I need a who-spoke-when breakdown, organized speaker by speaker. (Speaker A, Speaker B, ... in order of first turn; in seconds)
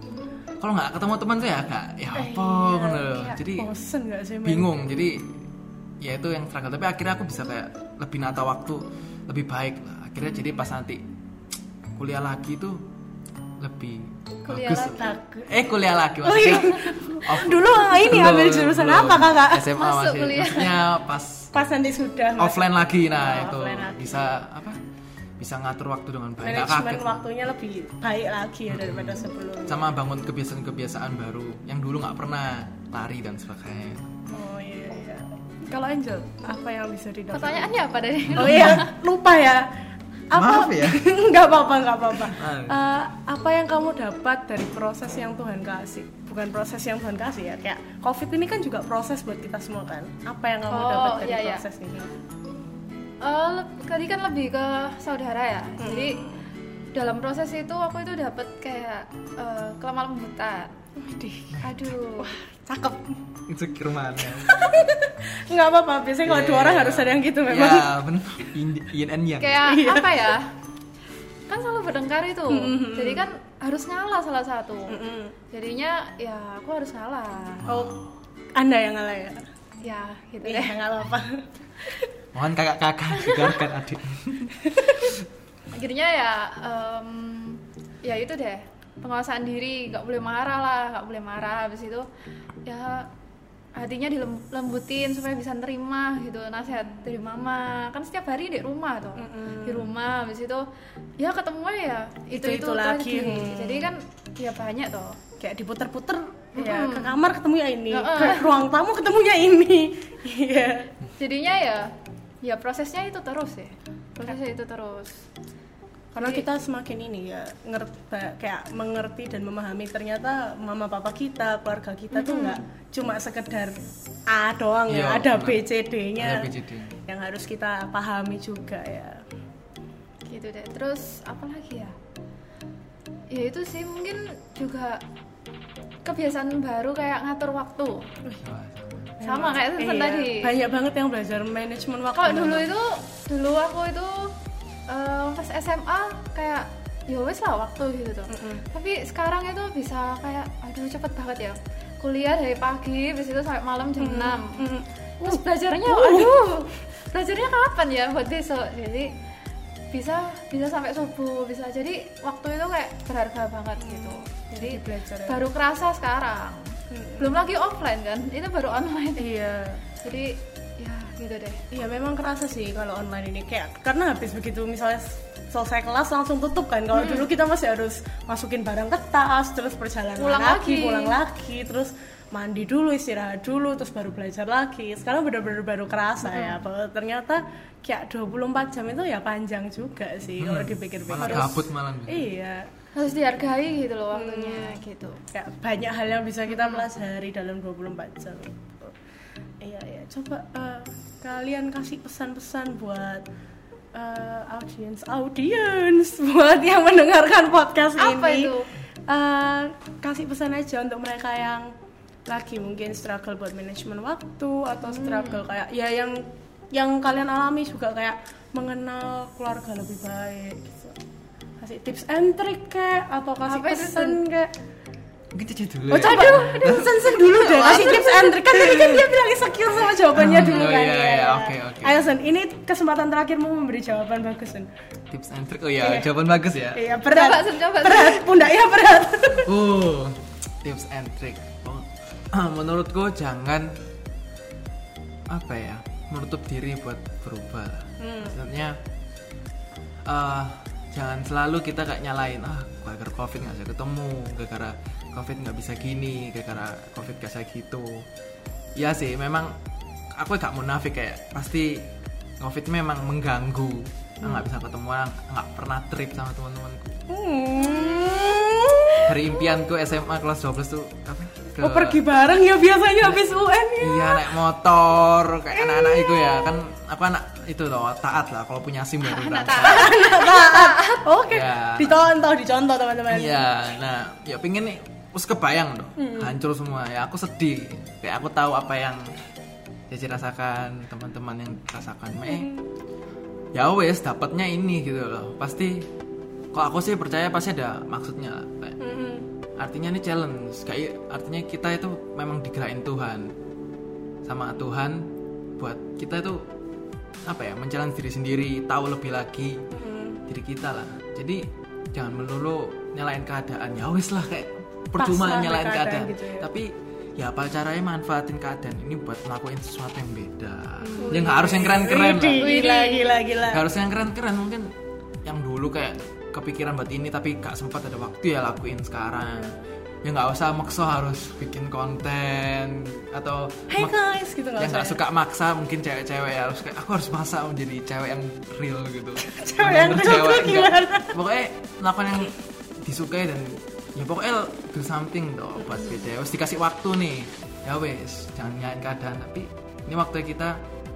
Speaker A: 0.6-3.7, 4.4-5.5, 6.0-11.0, 11.9-12.8, 13.6-21.5, 22.4-24.8, 25.4-27.2, 28.7-34.1, 38.3-38.8, 40.3-41.1, 42.4-42.9, 61.5-61.9, 63.5-64.6, 66.2-69.7, 77.6-78.1, 82.3-85.2, 124.9-127.0, 138.4-139.2, 190.4-192.3, 225.3-229.1, 230.1-232.0, 235.1-236.8, 239.4-243.7, 245.3-248.8, 250.1-258.1, 258.8-259.6, 260.2-261.9, 262.4-267.0, 269.1-272.0, 273.8-280.0, 281.2-282.1, 283.1-289.0, 289.9-292.5, 293.6-295.9, 296.5-298.8, 299.6-303.3, 304.2-306.4, 307.3-309.6, 310.3-322.5, 323.5-324.7, 325.2-334.0, 334.6-350.6
Speaker B: 2.1-4.7, 14.7-15.6, 16.2-19.7, 21.5-24.4, 26.4-29.9, 34.3-37.7, 38.4-39.7, 40.3-52.1, 55.8-56.4, 61.0-61.6, 62.2-63.3, 64.2-68.0, 69.6-70.4, 72.5-73.3, 74.9-75.4, 77.7-78.0, 78.5-79.4, 80.4-81.5, 99.2-99.9, 102.3-103.9, 105.4-110.9, 116.1-126.5, 127.1-129.2, 139.2-142.7, 148.3-148.6, 154.0-156.4, 163.8-165.4, 166.9-167.4, 169.2-169.9, 171.7-192.7, 194.1-194.8, 195.3-198.9, 199.6-203.2, 203.9-211.7, 212.3-221.0, 221.6-224.5, 225.9-234.7, 235.8-236.1, 236.7-239.5, 248.0-248.4, 267.1-269.5, 271.6-274.3, 275.5-276.6, 279.6-283.4, 286.0-286.3, 292.3-292.7, 298.8-299.3, 309.7-310.2, 315.0-316.5, 320.8-323.7, 333.7-335.0, 339.2-341.2
Speaker C: 14.4-15.2, 19.7-20.8, 37.3-38.9, 50.7-51.6, 53.2-56.2, 56.9-60.7, 61.6-62.3, 69.4-70.5, 71.5-77.8, 79.8-80.8, 85.7-92.0, 92.7-93.1, 93.8-100.7, 101.2-105.2, 106.6-107.2, 107.9-108.7, 111.2-111.9, 112.4-115.2, 116.2-116.5, 122.1-122.6, 130.2-131.9, 133.3-135.0, 136.0-138.1, 139.2-140.6, 142.2-144.3, 144.9-154.7, 155.2-159.2, 159.9-169.3, 170.0-171.6, 176.9-177.3, 180.2-181.2, 186.3-186.6, 192.9-195.2, 196.5-196.8, 208.0-208.7, 214.8-215.5, 223.4-224.2, 227.5-228.1, 237.0-238.3, 267.6-268.2, 279.0-281.1, 321.0-323.2